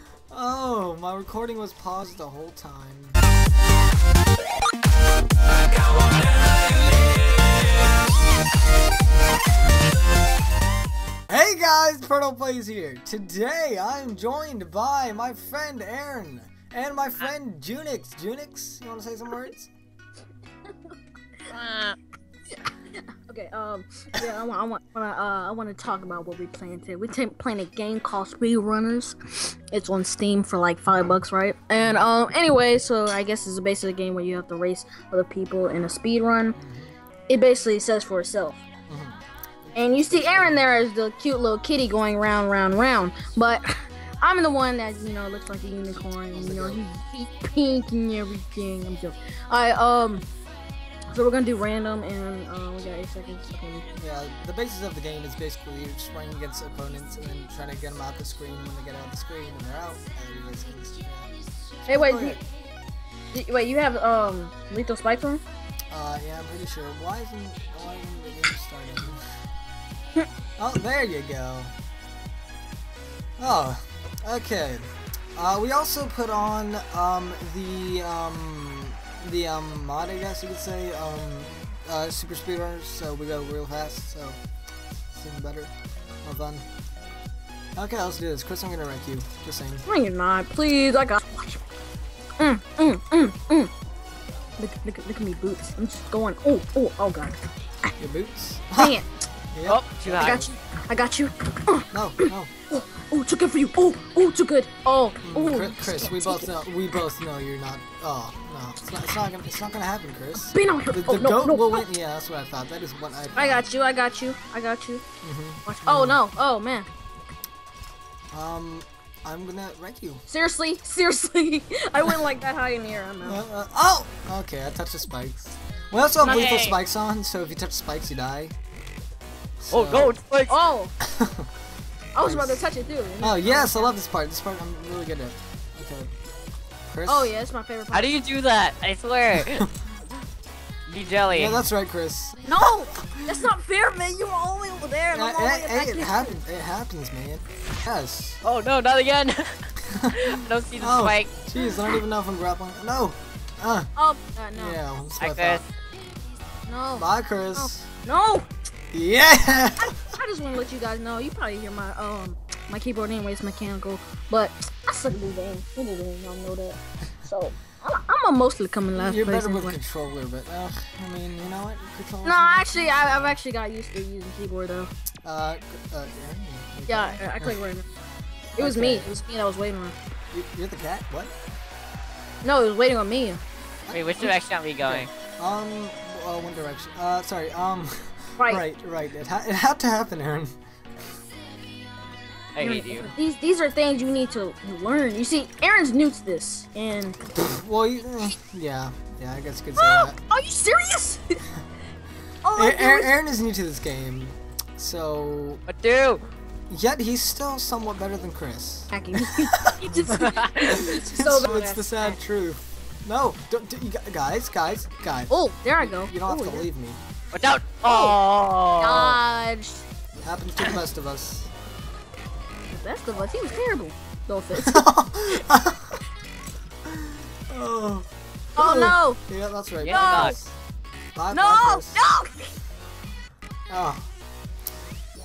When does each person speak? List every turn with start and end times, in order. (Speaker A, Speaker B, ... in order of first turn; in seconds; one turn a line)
Speaker A: 0.3-3.2
Speaker A: 11.3-19.7
Speaker B: 21.5-22.0
Speaker C: 22.6-36.6
Speaker A: 31.8-32.1
Speaker A: 36.5-37.0
Speaker C: 37.3-38.6
Speaker A: 38.9-40.7
Speaker C: 39.8-50.2
Speaker A: 46.3-46.8
Speaker C: 51.1-53.9
Speaker A: 54.0-61.3
Speaker A: 61.9-62.4
Speaker C: 61.9-62.4
Speaker C: 63.3-65.4
Speaker A: 65.9-69.2
Speaker A: 70.6-71.7
Speaker A: 73.4-84.4
Speaker A: 85.1-85.7
Speaker A: 86.2-86.7
Speaker A: 87.8-89.8
Speaker C: 89.9-91.6
Speaker C: 92.4-93.7
Speaker C: 94.6-97.4
Speaker A: 98.0-99.0
Speaker C: 98.8-99.1
Speaker A: 99.5-100.5
Speaker B: 99.7-100.5
Speaker C: 100.1-106.6
Speaker A: 101.9-102.5
Speaker A: 105.2-113.7
Speaker C: 110.4-111.9
Speaker C: 113.3-115.0
Speaker A: 115.2-116.2
Speaker C: 115.7-116.9
Speaker A: 118.3-120.2
Speaker C: 120.3-123.4
Speaker A: 123.2-128.6
Speaker B: 126.2-126.8
Speaker A: 129.6-130.2
Speaker B: 129.7-130.6
Speaker C: 130.5-130.9
Speaker A: 131.0-131.5
Speaker C: 132.2-133.9
Speaker A: 132.2-132.6
Speaker A: 133.2-136.1
Speaker A: 136.9-137.3
Speaker C: 137.1-138.1
Speaker B: 137.9-139.7
Speaker B: 140.9-141.6
Speaker A: 141.3-143.3
Speaker C: 142.5-146.4
Speaker A: 145.1-148.4
Speaker B: 148.4-149.6
Speaker A: 149.9-153.9
Speaker B: 150.1-151.3
Speaker C: 154.0-154.8
Speaker A: 154.6-155.6
Speaker B: 155.2-155.6
Speaker C: 156.7-158.5
Speaker A: 156.9-157.9
Speaker A: 158.9-159.9
Speaker C: 159.8-169.8
Speaker A: 168.9-173.4
Speaker C: 172.2-174.9
Speaker A: 175.2-177.6
Speaker C: 176.9-177.9
Speaker C: 178.6-179.9
Speaker A: 178.6-179.2
Speaker A: 180.3-181.3
Speaker C: 182.4-183.4
Speaker A: 183.9-190.6
Speaker B: 183.9-185.1
Speaker B: 192.6-193.1
Speaker C: 192.6-197.2
Speaker A: 197.4-200.2
Speaker C: 199.8-201.4
Speaker C: 202.4-203.2
Speaker A: 202.6-205.6
Speaker B: 205.7-206.2
Speaker A: 206.7-217.0
Speaker C: 208.9-212.2
Speaker B: 210.2-210.8
Speaker C: 215.3-216.7
Speaker B: 217.3-219.2
Speaker C: 217.8-218.2
Speaker C: 218.8-219.8
Speaker A: 220.2-221.5
Speaker C: 222.7-224.9
Speaker A: 224.6-226.0
Speaker A: 226.9-230.6
Speaker C: 228.6-229.2
Speaker B: 229.8-230.4
Speaker C: 229.8-230.4
Speaker A: 231.2-232.1
Speaker C: 231.3-232.6
Speaker A: 233.7-234.1